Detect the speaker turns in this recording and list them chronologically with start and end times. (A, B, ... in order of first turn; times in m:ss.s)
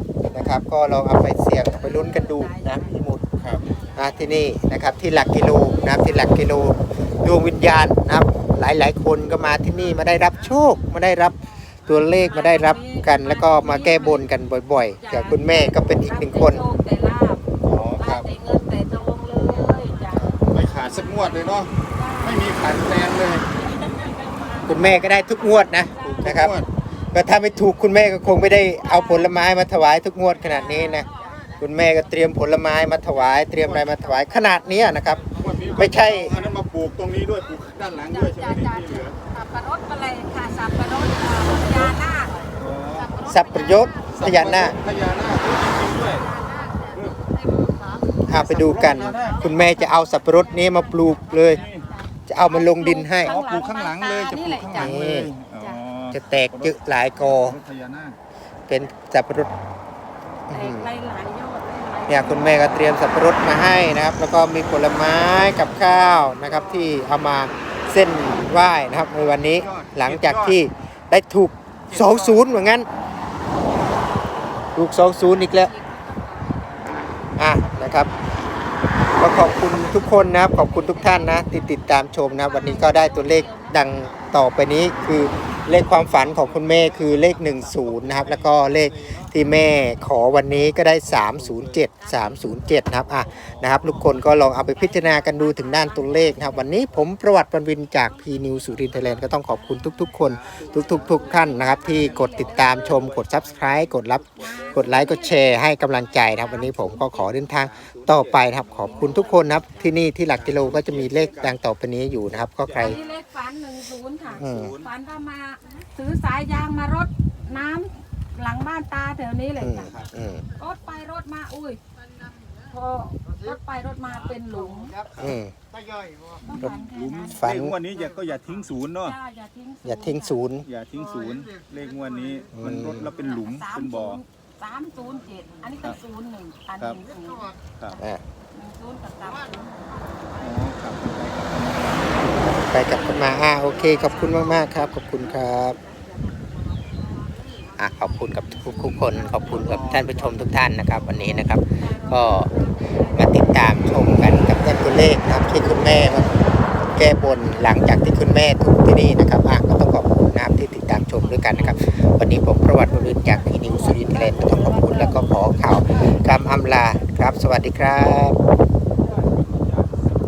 0:00.2-0:00.6 A
0:00.3-0:03.2 B
0:01.8-0:04.2 A
0:03.4-0:03.7 C
0:04.0-0:16.6 B
0:12.2-0:14.3 A
0:15.0-0:22.5 A
0:17.6-0:18.3 C
0:20.1-0:23.4 C
0:23.6-0:25.1 A
0:24.7-0:26.6 B
0:25.9-0:26.5 A
0:26.0-0:26.7 C
0:27.1-0:31.1 B
0:28.8-0:29.4 A
0:30.5-0:31.6 A
0:31.6-0:35.2 B
0:33.6-0:34.0 C
0:35.3-0:39.2 C
0:35.5-0:36.5 A
0:35.8-0:36.4 B
0:38.1-0:42.5 A
0:41.6-0:41.9 C
0:42.6-0:43.2 C
0:43.3-0:44.8 B
0:43.4-0:44.0 A
0:44.1-0:46.3 C
0:45.9-0:55.0 A
0:48.0-0:51.6 B
0:48.3-0:49.5 C
0:51.5-0:51.9 C
0:52.3-0:53.4 B
0:53.2-0:58.2 C
0:54.7-0:55.3 B
0:56.1-0:57.6 B
0:58.7-0:59.5 B
1:00.5-1:00.9 B
1:00.5-1:03.0 A
1:02.1-1:12.9 B
1:09.5-1:10.6 C
1:11.9-1:12.5 C
1:13.8-1:18.2 A
1:14.8-1:15.7 B
1:17.4-1:18.1 B
1:19.2-1:53.0 B
1:19.4-1:21.7 A
1:22.4-1:23.8 A
1:26.0-1:29.4 C
1:31.2-1:31.9 C
1:32.0-1:32.5 A
1:33.1-1:33.5 A
1:33.2-1:34.1 C
1:34.5-1:36.9 A
1:40.2-1:45.2 C
1:40.4-1:43.0 A
1:44.4-1:45.6 A
1:46.1-1:47.1 A
1:47.5-1:49.3 C
1:48.8-1:49.8 A
1:50.3-1:51.6 C
1:52.7-1:53.1 C
1:52.8-1:59.9 A
1:54.3-1:54.9 C
1:54.4-1:54.8 B
1:59.6-2:00.4 B
2:00.6-2:01.8 A
2:02.6-2:05.0 A
2:05.2-2:05.5 B
2:06.4-2:07.4 A
2:06.5-2:09.2 C
2:07.4-2:07.8 B
2:09.0-2:10.4 A
2:09.8-2:10.7 B
2:10.6-2:14.2 C
2:12.5-2:13.1 B
2:13.1-2:17.6 A
2:18.5-2:19.9 A
2:20.4-2:22.6 C
2:22.5-2:25.8 B
2:23.6-2:24.9 A
2:27.8-2:32.5 B
2:28.5-2:29.0 A
2:29.4-2:30.4 C
2:31.8-2:33.5 A
2:33.1-2:36.3 B
2:37.0-2:48.4 B
2:49.5-2:49.8 C